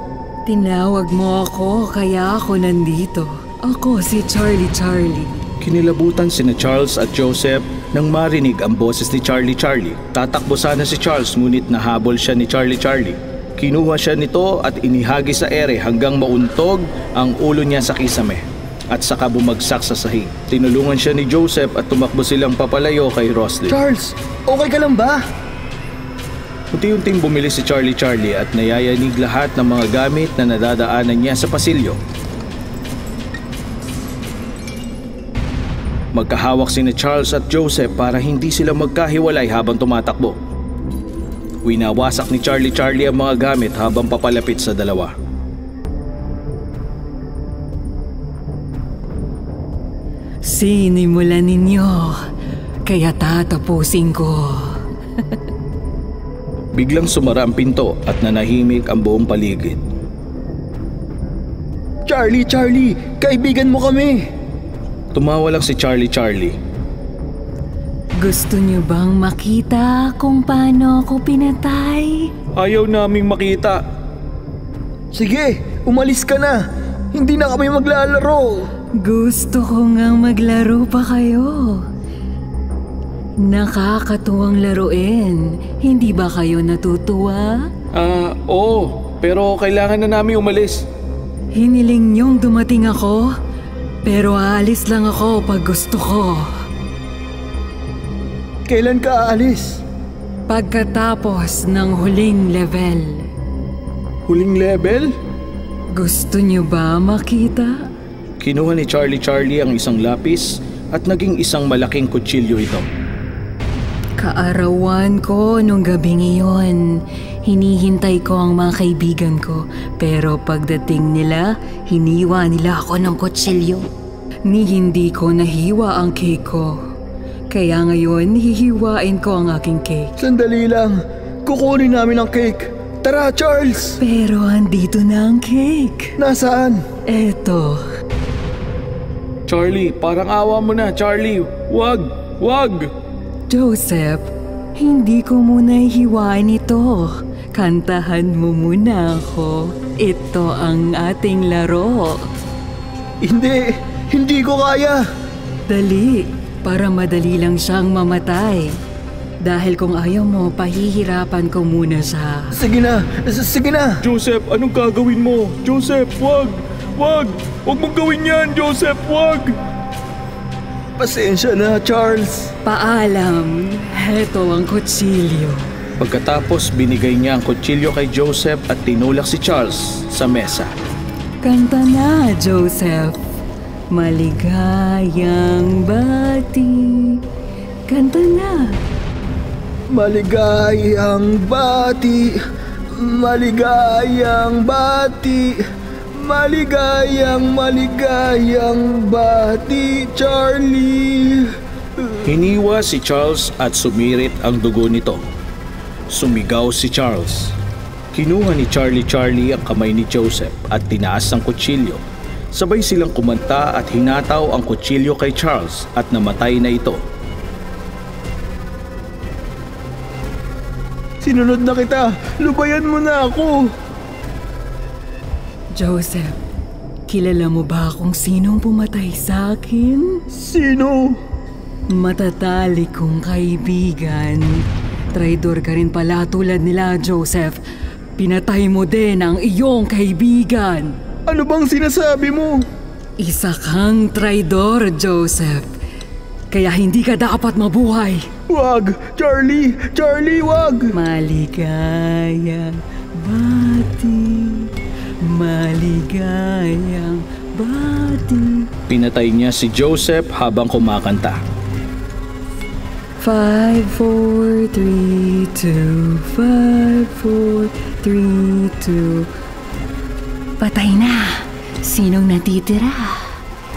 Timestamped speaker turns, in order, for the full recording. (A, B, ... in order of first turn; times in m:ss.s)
0:00.5-0:05.3 A
0:05.6-0:23.7 B
0:23.7-0:25.2 C
0:26.7-0:32.0 B
0:36.1-0:40.4 B
0:41.6-0:45.1 B
0:50.5-0:52.2 A
0:52.9-0:54.8 A
0:56.7-0:59.8 B
1:02.0-1:04.2 C
1:05.1-1:06.5 B
1:08.2-1:12.3 A
1:12.6-1:13.8 B
1:15.1-1:16.6 C
1:17.1-1:18.7 C
1:19.0-1:21.8 A
1:23.4-1:27.7 A
1:27.9-1:30.9 B
1:31.5-1:33.3 A
1:34.0-1:36.5 A
1:38.7-1:39.8 C
1:40.5-1:43.2 A
1:44.3-1:45.1 C
1:45.9-1:47.9 A
1:48.4-1:52.8 B
1:54.2-2:03.8 A
2:04.5-2:06.8 A
2:07.5-2:10.1 A
2:10.2-2:14.0 C
2:14.0-2:16.1 A
2:16.2-2:16.8 C
2:17.1-2:17.8 A
2:19.5-2:22.9 B
2:23.5-2:32.2 A
2:33.2-2:35.0 C
2:35.7-2:38.8 A
2:39.4-2:42.5 A
2:42.5-2:44.0 C
2:44.0-2:49.6 B
2:51.0-2:52.5 C
2:52.6-2:55.7 A
2:56.0-3:00.7 B
3:01.4-3:03.2 A
3:03.9-3:07.2 A
3:07.9-3:08.8 A
3:09.9-3:12.3 C
3:12.9-3:15.6 C
3:16.1-3:22.4 C
3:22.3-3:25.2 B
3:26.1-3:27.5 B
3:28.1-3:32.0 B
3:32.5-3:37.0 B
3:41.2-3:43.7 C
3:45.8-3:46.4 A
3:47.1-3:50.2 A
3:50.3-3:51.2 C
3:51.9-3:57.6 A
3:58.2-4:00.9 A
4:01.3-4:02.6 C
4:03.2-4:05.6 A
4:06.5-4:08.3 A
4:08.5-4:10.9 C
4:10.9-4:14.7 A
4:15.2-4:18.7 A
4:18.9-4:21.4 B
4:23.2-4:29.3 A
4:30.6-4:33.3 A